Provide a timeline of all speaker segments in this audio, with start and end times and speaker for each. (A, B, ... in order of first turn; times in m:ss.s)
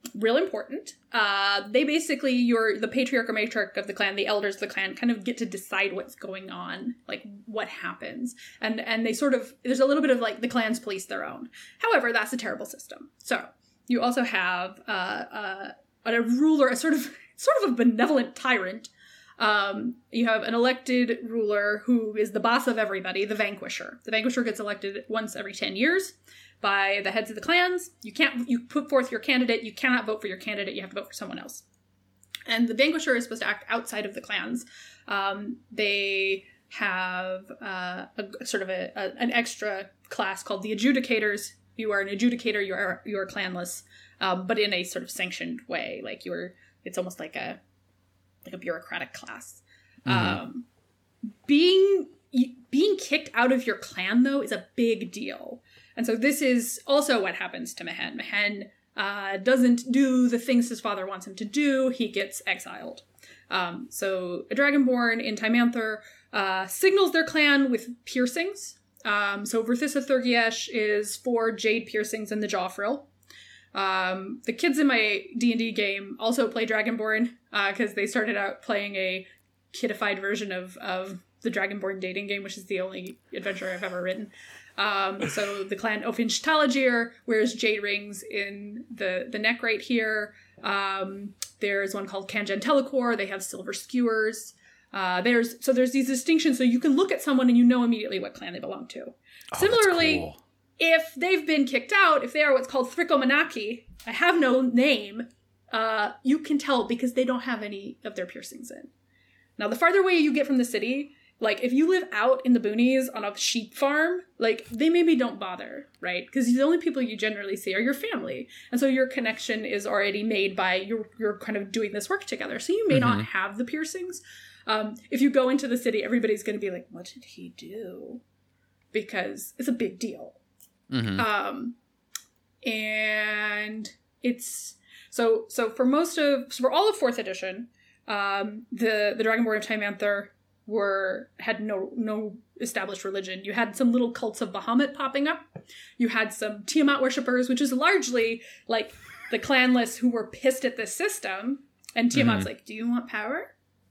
0:00.2-0:31.6 A
0:32.5-0:47.6 A
0:48.4-0:50.7 A
0:50.1-0:50.4 B
0:51.4-1:13.1 A
1:13.7-1:40.3 A
1:39.5-1:40.4 B
1:40.8-1:48.9 A
1:49.6-2:08.2 A
2:02.9-2:03.3 B
2:08.9-2:10.4 A
2:10.9-2:11.2 B
2:11.2-2:11.8 A
2:12.6-2:25.4 A
2:26.0-2:33.5 A
2:32.1-2:32.5 B